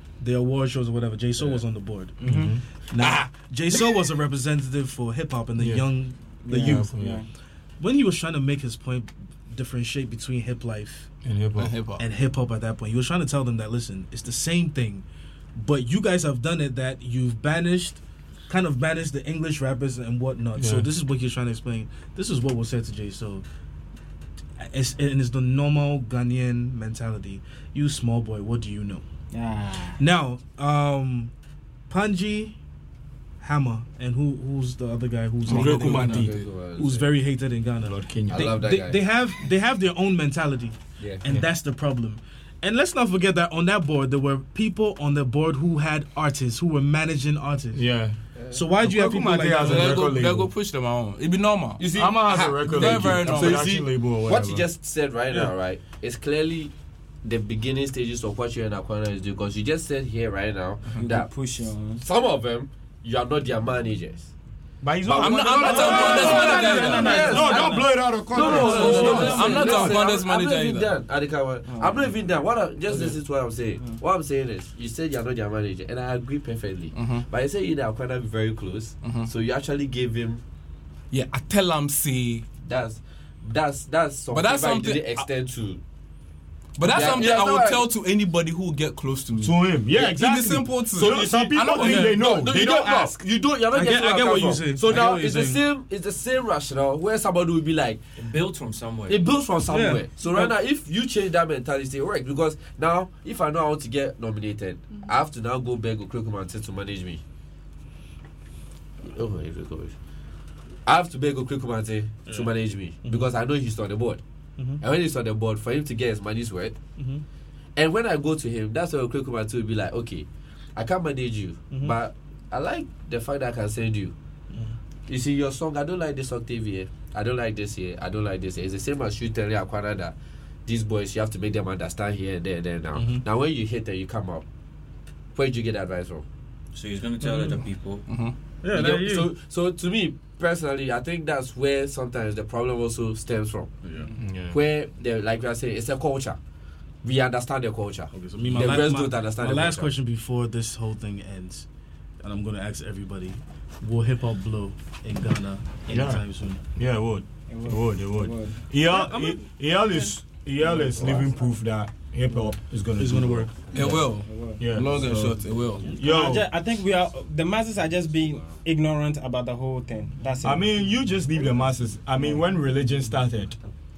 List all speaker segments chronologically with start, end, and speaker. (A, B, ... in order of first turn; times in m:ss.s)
0:00.2-0:07.0 A
0:02.2-0:02.6 B
0:03.0-0:03.9 C
0:05.6-0:05.9 B
0:06.4-0:07.2 D
0:06.5-0:07.2 B
0:07.8-0:11.1 A
0:11.2-0:11.8 B
0:11.6-0:12.0 C
0:12.0-0:15.0 A
0:15.6-0:23.4 A
0:20.6-0:20.9 B
0:24.6-0:29.0 A
0:29.3-0:30.0 D
0:30.0-0:31.3 A
0:31.9-0:32.5 A
0:33.4-0:47.8 A
0:35.4-0:36.3 B
0:35.5-0:36.3 C
0:35.6-0:37.1 E
0:37.8-0:38.6 B
0:38.3-0:39.0 E
0:41.0-0:41.2 E
0:47.7-0:48.2 B
0:48.5-0:50.2 A
0:48.8-0:50.5 B
0:49.6-0:53.8 C
0:51.8-0:56.7 E
0:51.9-0:54.6 B
0:57.2-1:01.3 E
1:01.0-1:02.0 D
1:02.0-1:04.3 E
1:04.8-1:09.9 B
1:05.1-1:20.4 E
1:05.1-1:07.4 C
1:05.6-1:09.9 D
1:08.4-1:10.9 C
1:11.7-1:12.1 D
1:16.9-1:17.2 C
1:19.0-1:19.3 C
1:21.1-1:22.4 C
1:22.6-1:25.8 E
1:24.3-1:25.2 C
1:26.8-1:32.2 C
1:26.8-1:27.9 E
1:29.4-1:33.2 B
1:31.0-1:38.0 E
1:33.7-1:35.6 A
1:34.8-1:35.1 B
1:38.2-1:39.3 F
1:39.1-1:47.2 E
1:39.7-1:40.5 A
1:49.1-1:49.9 E
1:50.8-1:54.2 E
1:53.0-1:53.3 A
1:54.8-1:56.8 E
1:57.0-1:57.2 A
1:57.8-2:04.1 E
2:01.7-2:02.0 A
2:04.5-2:04.8 A
2:05.1-2:10.1 E
2:10.7-2:14.4 E
2:12.9-2:13.2 A
2:15.3-2:16.2 E
2:16.7-2:18.0 F
2:17.2-2:17.6 A
2:18.0-2:18.4 C
2:18.6-2:19.3 A
2:18.7-2:23.8 E
2:24.2-2:24.6 B
2:24.5-2:26.4 E
2:27.0-2:29.9 E
2:28.1-2:31.6 A
2:32.2-2:36.6 A
2:35.9-2:44.0 B
2:37.5-2:38.6 D
2:38.9-2:39.4 A
2:41.0-2:41.2 E
2:43.0-2:44.0 A
2:43.7-2:45.9 C
2:44.0-2:44.6 D
2:44.6-2:46.5 B
2:46.0-2:50.7 D
2:50.4-2:53.6 B